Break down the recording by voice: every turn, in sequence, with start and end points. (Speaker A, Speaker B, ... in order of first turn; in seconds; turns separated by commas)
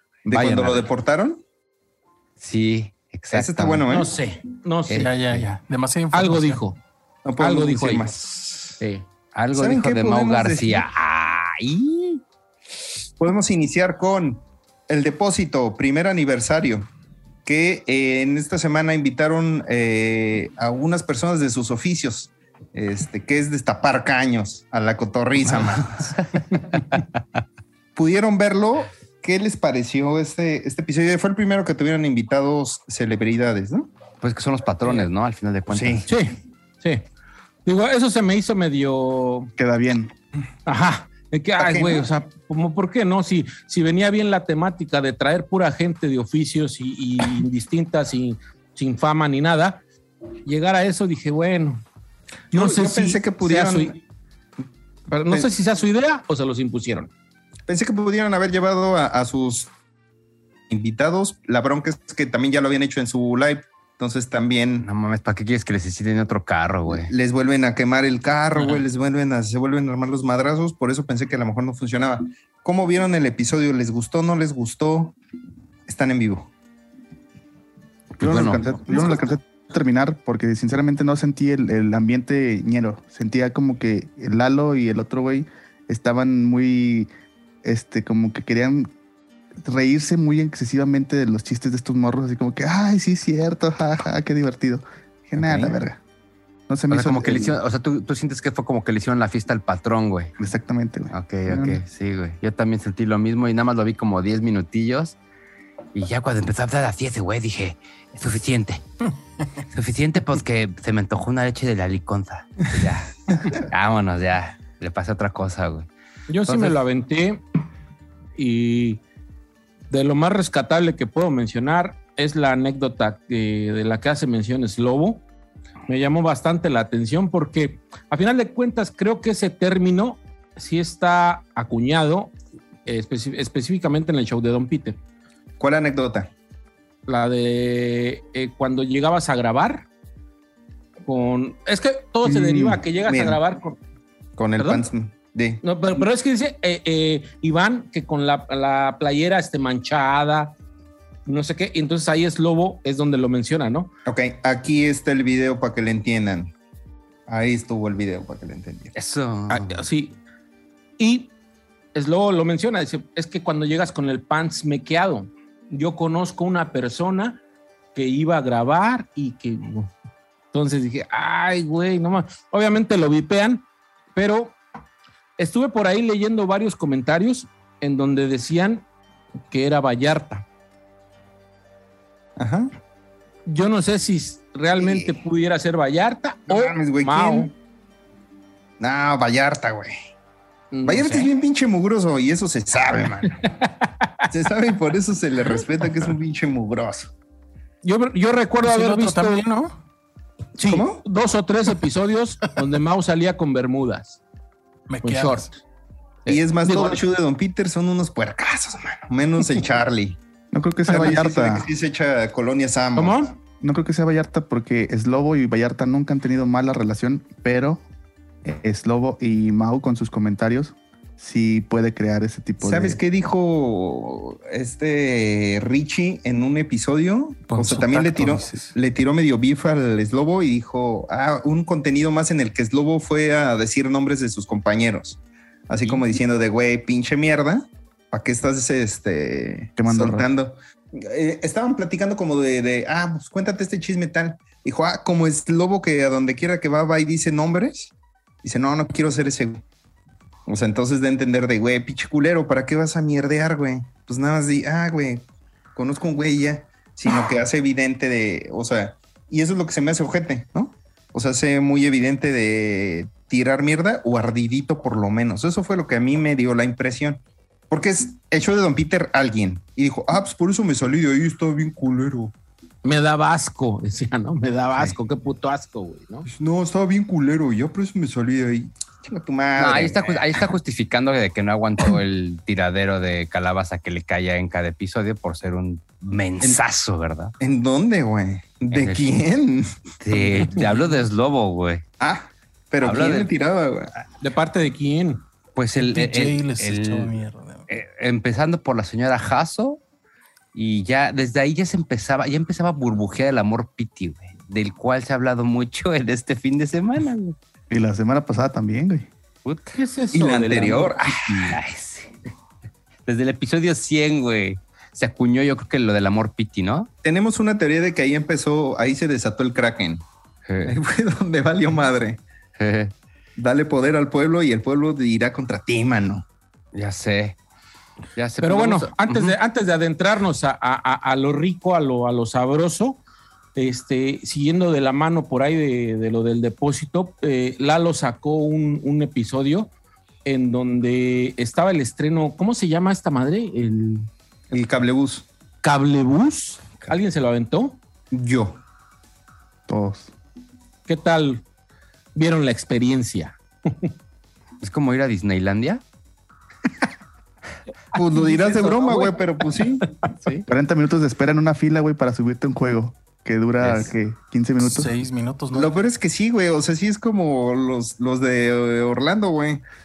Speaker A: 0.3-1.4, Speaker B: 0.3-0.9, Speaker B: 2.4-4.1, Speaker A: 3.3-4.1, Speaker C: 3.9-5.1, Speaker B: 4.9-5.4, Speaker D: 4.9-6.6, Speaker C: 6.1-6.8, Speaker A: 7.2-8.8, Speaker C: 7.4-8.1, Speaker C: 8.8-9.0, Speaker B: 9.3-12.2, Speaker A: 9.5-10.8, Speaker A: 13.2-16.9, Speaker A: 17.4-26.8, Speaker B: 25.5-27.0, Speaker A: 27.9-33.9, Speaker B: 34.2-36.1, Speaker A: 35.7-36.1, Speaker C: 36.1-37.0, Speaker C: 37.6-39.5, Speaker E: 39.6-40.1, Speaker C: 40.6-49.8, Speaker A: 41.6-42.0, Speaker C: 50.4-51.8, Speaker A: 52.5-53.9, Speaker C: 52.5-54.0, Speaker C: 55.1-57.1, Speaker A: 57.7-59.7, Speaker A: 60.7-64.9, Speaker B: 64.8-67.1, Speaker A: 66.9-75.2, Speaker A: 75.9-76.5, Speaker B: 78.2-79.1, Speaker E: 78.2-87.1, Speaker E: 87.6-88.9, Speaker E: 89.6-96.0, Speaker B: 95.4-95.8, Speaker E: 96.7-97.6, Speaker B: 96.9-100.3, Speaker E: 100.4-101.8, Speaker B: 101.1-105.2, Speaker B: 105.9-108.8, Speaker B: 109.7-115.9, Speaker C: 116.3-117.4, Speaker B: 116.5-116.8, Speaker C: 118.4-119.0, Speaker C: 119.9-125.2, Speaker C: 125.9-132.3, Speaker C: 132.8-135.0, Speaker A: 135.6-136.3, Speaker C: 137.1-139.9, Speaker C: 141.1-143.8, Speaker A: 142.2-143.4, Speaker A: 144.4-145.6, Speaker C: 144.6-144.8, Speaker C: 145.6-150.5, Speaker C: 151.2-153.9, Speaker A: 154.1-156.5, Speaker A: 157.3-158.9, Speaker B: 158.9-159.8, Speaker C: 159.5-160.2, Speaker C: 161.0-161.3, Speaker C: 161.9-167.4, Speaker C: 167.9-169.9, Speaker C: 170.5-174.6, Speaker C: 175.4-178.8, Speaker C: 179.5-180.4, Speaker A: 182.4-182.7, Speaker C: 183.4-187.5, Speaker A: 184.8-185.1, Speaker A: 186.5-187.5, Speaker A: 188.8-189.9, Speaker C: 190.7-191.3, Speaker A: 190.8-193.5, Speaker C: 193.4-193.9, Speaker A: 194.3-197.1, Speaker C: 197.8-199.4, Speaker D: 198.6-199.7, Speaker C: 200.6-204.2, Speaker A: 200.7-201.0, Speaker D: 204.9-205.5, Speaker C: 205.0-205.5, Speaker C: 206.2-207.0, Speaker A: 206.3-210.2, Speaker E: 210.5-211.7, Speaker A: 210.9-213.3, Speaker C: 212.9-213.3, Speaker E: 213.6-217.8, Speaker E: 218.4-223.0, Speaker A: 222.6-247.9, Speaker D: 227.5-228.8, Speaker E: 239.8-240.3, Speaker A: 248.4-249.6, Speaker A: 250.5-272.3, Speaker C: 272.8-276.3, Speaker A: 276.3-280.4, Speaker B: 279.6-287.3, Speaker A: 287.4-289.7, Speaker B: 288.7-289.2, Speaker B: 290.0-291.8, Speaker A: 292.0-293.9, Speaker B: 292.8-293.3, Speaker C: 294.2-295.2, Speaker B: 295.6-297.1, Speaker D: 295.8-297.7, Speaker B: 297.7-299.8, Speaker B: 300.5-307.4, Speaker E: 307.7-309.1, Speaker B: 309.4-309.8, Speaker C: 309.7-310.9, Speaker A: 310.1-311.6, Speaker B: 311.3-312.1, Speaker B: 313.1-316.9, Speaker A: 317.0-320.0, Speaker B: 320.5-320.8, Speaker A: 320.6-322.2, Speaker B: 322.6-322.9, Speaker A: 323.4-326.2, Speaker B: 326.7-327.4, Speaker B: 328.1-329.4, Speaker C: 328.4-333.0, Speaker C: 333.6-339.7, Speaker C: 340.2-344.1, Speaker A: 344.5-345.2, Speaker C: 345.6-347.8, Speaker A: 348.1-348.6, Speaker E: 349.7-350.1, Speaker C: 350.9-351.4, Speaker C: 352.1-353.9, Speaker B: 354.6-355.8, Speaker A: 357.9-359.9, Speaker C: 358.0-359.2, Speaker C: 360.0-360.4, Speaker E: 360.5-364.9, Speaker B: 363.6-363.9, Speaker D: 364.6-365.8, Speaker A: 365.5-369.6